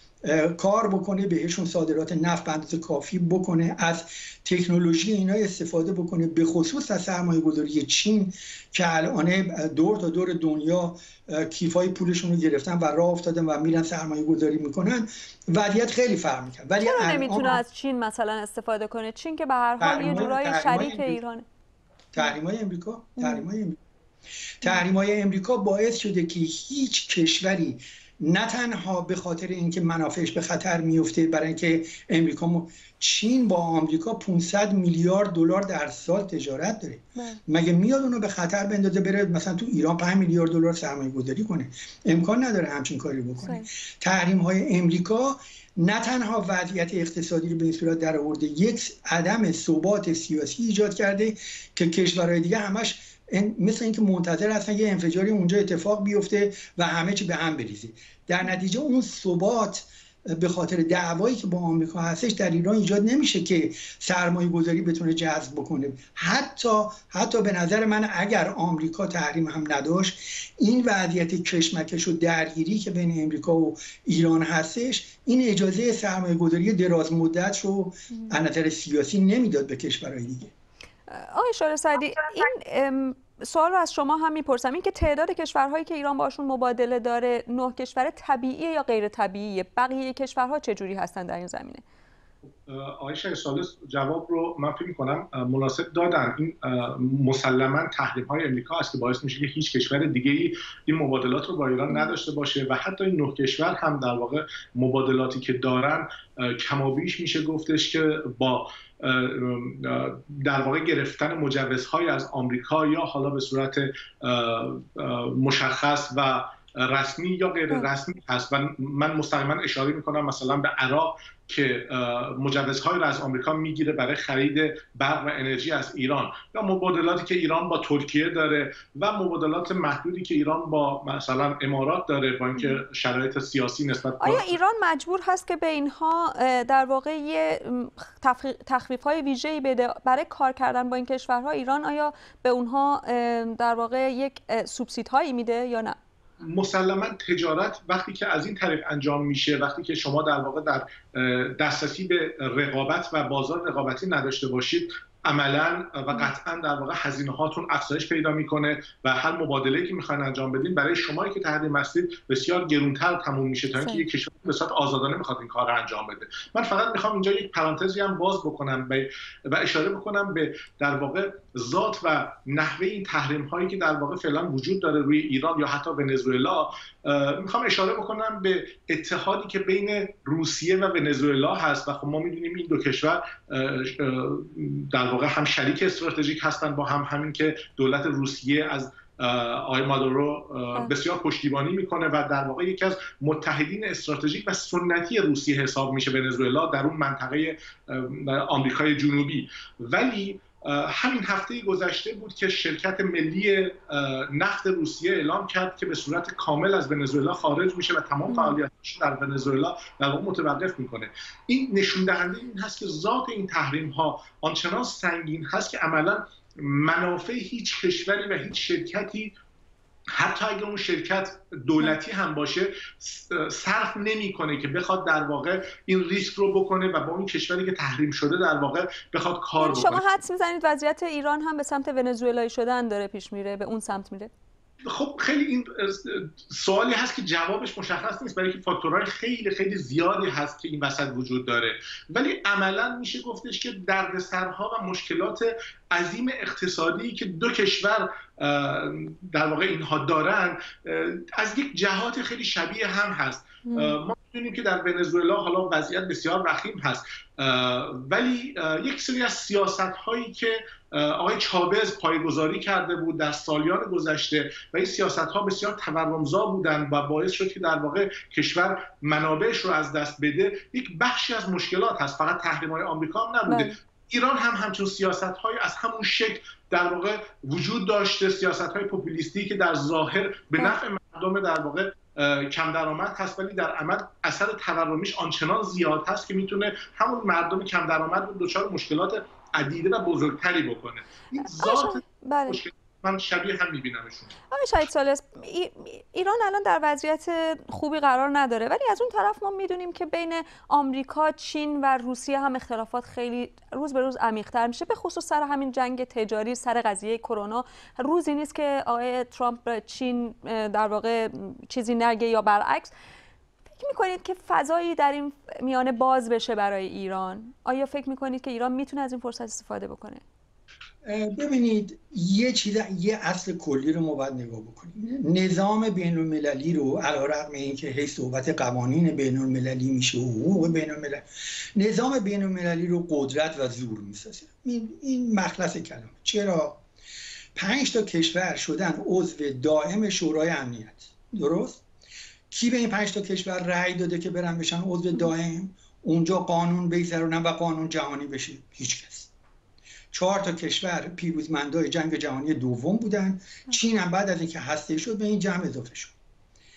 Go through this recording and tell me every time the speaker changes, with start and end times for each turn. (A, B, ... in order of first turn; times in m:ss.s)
0:00.2-0:17.6 A
0:16.8-0:21.4 B
0:19.8-0:21.2 A
0:22.1-0:23.8 A
0:24.6-1:20.5 A
0:43.4-0:43.7 B
1:21.1-1:31.8 B
1:32.5-2:14.5 C
2:14.2-2:26.0 B
2:26.4-3:39.3 C
2:43.8-2:44.0 B
3:28.3-3:28.6 B
3:40.1-3:50.0 C
3:49.6-3:54.3 B
3:54.8-4:54.4 C
4:13.6-4:14.0 B
4:33.5-4:33.8 B
4:51.4-4:52.6 B
4:54.5-5:12.9 B
5:13.7-5:20.2 B
5:21.0-5:36.8 A
5:37.5-5:41.8 A
5:42.5-5:49.3 A
5:50.1-5:56.2 A